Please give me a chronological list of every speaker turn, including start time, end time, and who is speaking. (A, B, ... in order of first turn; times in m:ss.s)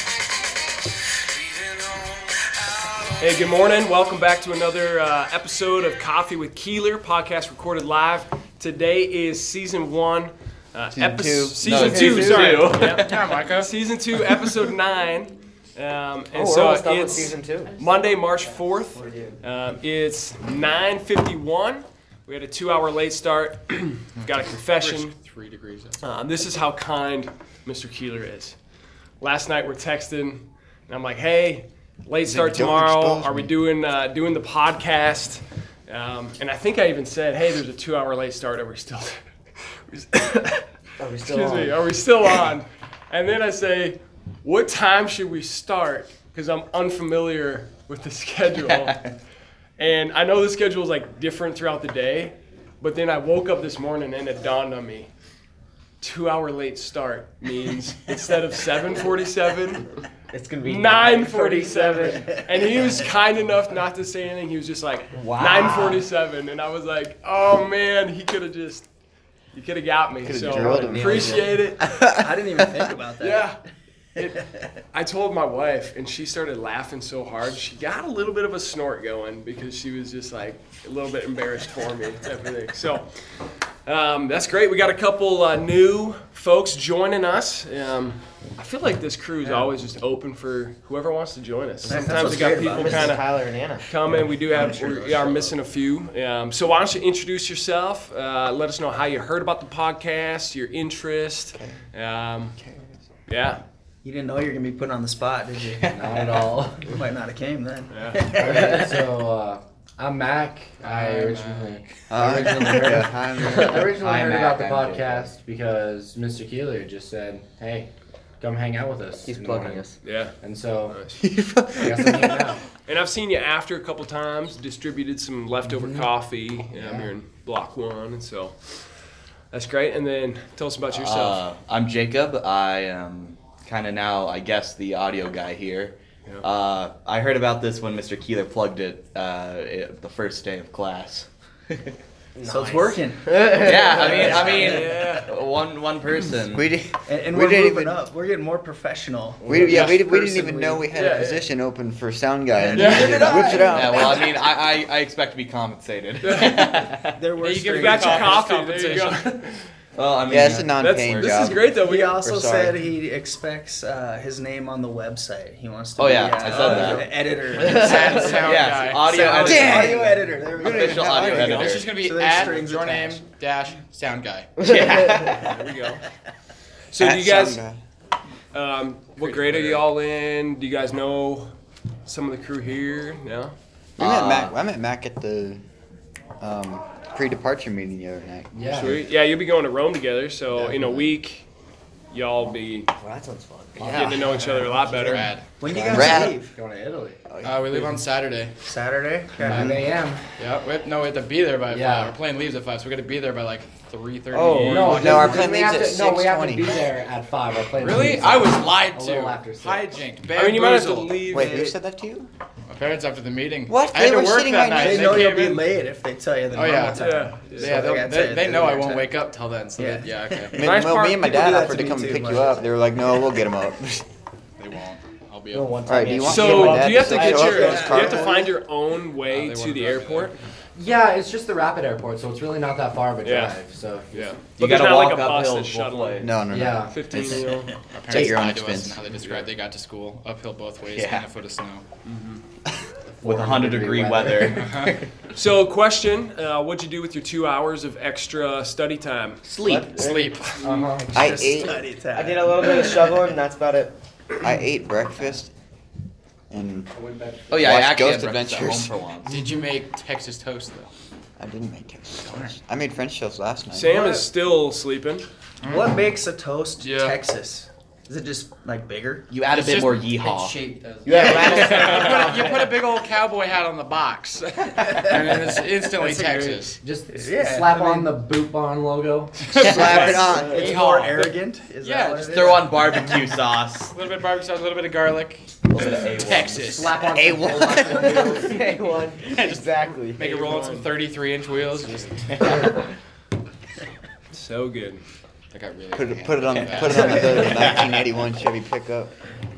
0:03.2-0:25.1 A
0:11.0-0:11.5 B
0:11.6-0:13.3 C
0:11.7-0:12.5 D
0:13.0-0:13.7 E
0:16.3-0:17.8 D
0:18.9-0:19.4 D
0:24.2-0:26.0 E
0:26.0-0:28.6 A
0:29.2-0:39.2 A
0:32.2-0:33.5 B
0:39.9-0:40.6 A
0:41.0-0:41.8 D
0:41.2-0:49.0 A
0:48.6-0:49.1 C
0:49.8-0:55.1 A
0:56.0-0:59.8 A
1:00.3-1:02.1 D
1:00.6-1:08.9 A
1:02.0-1:02.4 F
1:05.1-1:06.0 D
1:09.5-1:11.8 A
1:10.2-1:11.6 B
1:10.5-1:11.6 D
1:12.0-1:13.5 F
1:13.2-1:13.6 A
1:14.2-1:23.1 A
1:23.8-1:42.6 A
1:31.8-1:33.2 F
1:31.9-1:33.9 D
1:34.5-1:35.5 F
1:42.5-1:43.0 B
1:43.3-1:43.6 A
1:44.0-1:48.9 F
1:45.9-1:46.9 G
1:47.9-1:48.3 A
1:48.3-1:57.9 G
1:50.8-1:51.9 E
1:52.1-1:54.1 B
1:54.0-1:54.4 C
1:54.4-1:54.9 D
1:58.4-1:59.8 G
1:59.2-1:59.9 D
2:00.0-2:00.3 A
2:00.4-2:01.0 G
2:00.9-2:01.2 A
2:01.2-2:02.5 B
2:01.8-2:02.6 G
2:02.8-2:08.8 A
2:06.8-2:07.1 G
2:09.5-2:11.5 A
2:10.9-2:22.0 C
2:22.4-2:24.4 D
2:22.4-2:24.9 F
2:23.6-2:26.7 C
2:24.2-2:25.3 A
2:26.5-2:28.0 B
2:27.1-2:30.2 F
2:29.4-2:34.4 B
2:29.5-2:30.7 D
2:29.7-2:30.1 E
2:30.9-2:31.4 A
2:32.7-2:34.0 A
2:32.8-2:37.3 C
2:33.1-2:33.7 D
2:36.2-2:36.9 A
2:37.2-2:38.4 F
2:37.3-2:39.4 E
2:37.6-2:39.5 A
2:40.0-2:41.6 C
2:40.3-2:42.8 B
2:40.8-2:42.2 A
2:41.8-2:53.2 F
2:46.0-2:47.1 C
2:46.5-2:47.0 E
2:47.5-2:48.3 D
2:47.6-2:49.8 E
2:48.3-2:50.0 C
2:49.4-2:51.6 B
2:50.6-2:51.9 C
2:51.1-2:54.6 E
2:54.6-2:55.5 C
2:55.2-2:56.0 A
2:56.9-2:57.6 A
2:57.0-2:57.8 B
2:58.5-3:01.5 A
2:59.4-2:59.8 E
3:02.0-3:03.5 A
3:04.0-3:04.6 C
3:04.0-3:05.6 B
3:06.4-3:08.7 B
3:08.5-3:09.0 G
3:08.7-3:11.5 A
3:12.1-3:12.9 A
3:13.0-3:14.1 D
3:13.8-3:17.2 G
3:13.8-3:15.3 A
3:15.0-3:15.4 E
3:15.6-3:16.5 F
3:15.7-3:16.3 B
3:17.3-3:17.8 B
3:17.4-3:18.5 E
3:18.6-3:19.8 F
3:19.4-3:20.2 G
3:19.5-3:19.8 B
3:20.4-3:25.6 E
3:21.7-3:22.2 G
3:24.3-3:25.2 D
3:24.5-3:24.9 A
3:24.7-3:29.9 G
3:24.9-3:26.8 B
3:27.8-3:31.3 E
3:30.3-3:31.7 A
3:31.3-3:31.7 F
3:31.3-3:32.3 B
3:32.7-3:35.6 E
3:33.7-3:35.3 B
3:34.7-3:39.1 F
3:36.5-3:40.6 E
3:37.0-3:37.8 A
3:39.7-3:42.7 F
3:40.5-3:44.0 B
3:40.6-3:41.2 A
3:44.6-3:45.9 E
3:45.5-3:48.0 D
3:45.8-3:48.4 B
3:46.3-3:50.4 A
3:46.4-3:48.5 F
3:49.3-3:50.3 E
3:50.7-3:54.4 G
3:53.2-3:53.5 A
3:54.1-3:57.8 A
3:54.5-3:56.3 C
3:56.2-3:57.4 B
3:56.5-3:56.9 G
3:57.9-4:01.8 E
3:58.1-3:59.0 B
4:00.8-4:01.3 C
4:02.0-4:02.4 A
4:03.0-4:04.7 G
4:03.2-4:05.1 C
4:04.5-4:04.9 E
4:05.3-4:09.4 A
4:09.4-4:10.0 C
4:09.6-4:10.5 D
4:10.0-4:10.5 E
4:10.0-4:10.6 A
4:10.6-4:11.0 G
4:10.9-4:13.1 F
4:11.1-4:11.8 B
4:12.1-4:13.9 D
4:14.4-4:15.5 B
4:16.5-4:16.9 B
4:16.9-4:17.8 G
4:17.5-4:19.4 C
4:17.5-4:18.9 B
4:19.2-4:20.9 E
4:21.4-4:24.2 B
4:22.2-4:22.5 E
4:23.7-4:25.2 A
4:25.6-4:25.9 E
4:25.6-4:29.3 F
4:26.8-4:27.1 A
4:29.3-4:32.1 C
4:30.3-4:32.7 D
4:31.0-4:36.8 E
4:36.0-4:36.6 D
4:36.7-4:39.5 G
4:37.1-4:38.1 F
4:39.6-4:40.0 C
4:39.6-4:40.7 B
4:39.8-4:43.1 F
4:39.8-4:42.9 E
4:39.9-4:40.8 D
4:42.2-4:44.0 C
4:43.9-4:45.4 E
4:45.7-4:46.8 C
4:46.2-4:47.0 E
4:46.7-4:48.7 G
4:47.1-4:48.1 B
4:48.3-4:50.3 D
4:48.4-4:48.8 C
4:49.3-4:52.2 E
4:50.0-4:50.9 A
4:54.3-4:55.0 A
4:55.5-4:57.5 E
4:55.9-4:59.1 B
4:57.4-4:58.0 C